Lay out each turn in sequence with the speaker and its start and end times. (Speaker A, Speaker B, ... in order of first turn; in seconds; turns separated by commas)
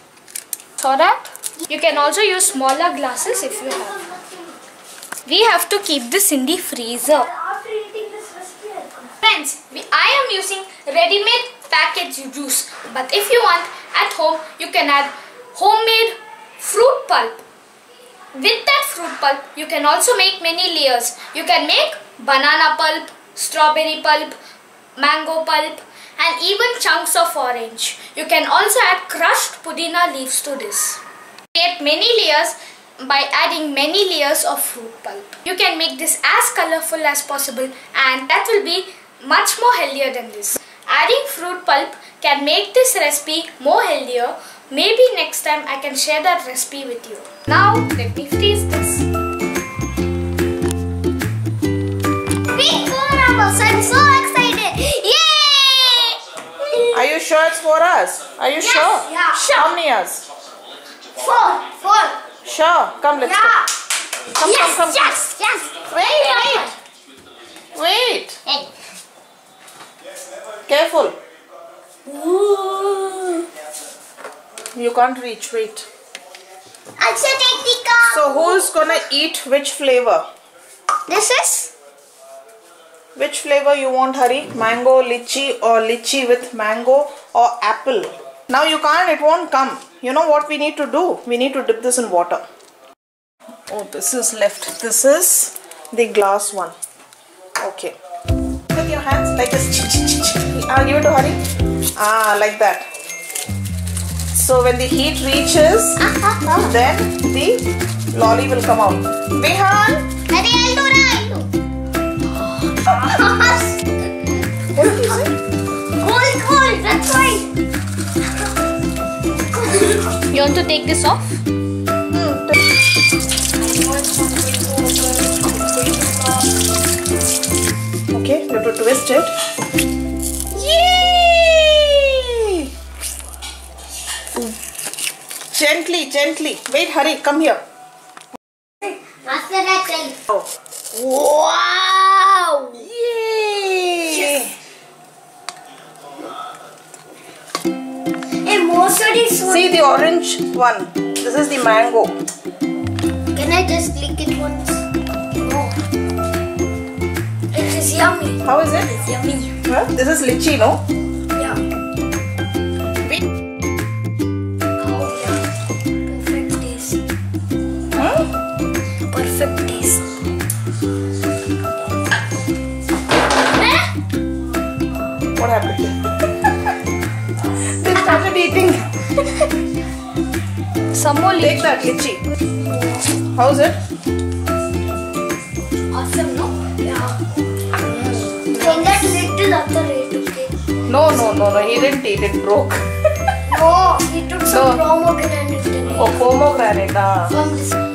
Speaker A: 0.8-4.0, Speaker B: 3.3-4.5, Speaker A: 5.2-7.3, Speaker B: 7.2-9.1, Speaker A: 9.2-17.4, Speaker A: 18.3-24.4, Speaker A: 25.0-31.0, Speaker A: 31.5-49.1, Speaker C: 52.5-56.2, Speaker D: 56.9-60.2, Speaker B: 58.6-59.6, Speaker B: 61.2-62.2, Speaker D: 62.4-63.6, Speaker B: 63.2-63.7, Speaker D: 64.4-65.2, Speaker C: 64.4-66.7, Speaker D: 65.9-66.7, Speaker D: 67.7-68.4, Speaker C: 68.5-68.7, Speaker D: 70.7-71.2, Speaker C: 72.0-73.4, Speaker D: 74.7-75.8, Speaker C: 77.0-78.8, Speaker D: 78.0-80.2, Speaker C: 81.1-81.7, Speaker D: 83.2-92.4, Speaker D: 93.7-96.8, Speaker D: 97.6-97.9, Speaker D: 98.7-101.4, Speaker D: 102.0-102.9, Speaker D: 104.3-106.0, Speaker C: 106.0-106.8, Speaker D: 106.5-110.1, Speaker C: 110.3-111.5, Speaker C: 112.8-113.8, Speaker D: 114.7-115.3, Speaker C: 116.0-117.4, Speaker A: 120.1-121.4, Speaker D: 122.1-122.6, Speaker B: 123.7-126.4, Speaker D: 128.1-129.3, Speaker D: 130.6-132.7, Speaker D: 135.5-137.6, Speaker C: 138.8-140.2, Speaker C: 141.0-142.9, Speaker D: 142.9-144.5, Speaker B: 148.4-149.8, Speaker D: 149.4-152.2, Speaker C: 153.3-155.8, Speaker B: 157.5-158.4, Speaker D: 158.4-159.0, Speaker D: 159.6-160.8, Speaker B: 161.3-161.6, Speaker B: 164.8-165.4, Speaker B: 166.1-167.0, Speaker D: 168.0-168.2, Speaker B: 169.1-170.0, Speaker A: 173.6-173.8, Speaker D: 175.3-176.7, Speaker D: 177.6-179.5, Speaker A: 180.9-181.9, Speaker D: 181.4-182.2, Speaker D: 183.3-183.8, Speaker B: 185.9-187.2, Speaker D: 187.8-189.0, Speaker B: 188.4-190.5, Speaker D: 190.9-192.8, Speaker B: 193.5-196.2, Speaker D: 194.5-194.8, Speaker D: 196.0-197.4, Speaker B: 197.3-197.8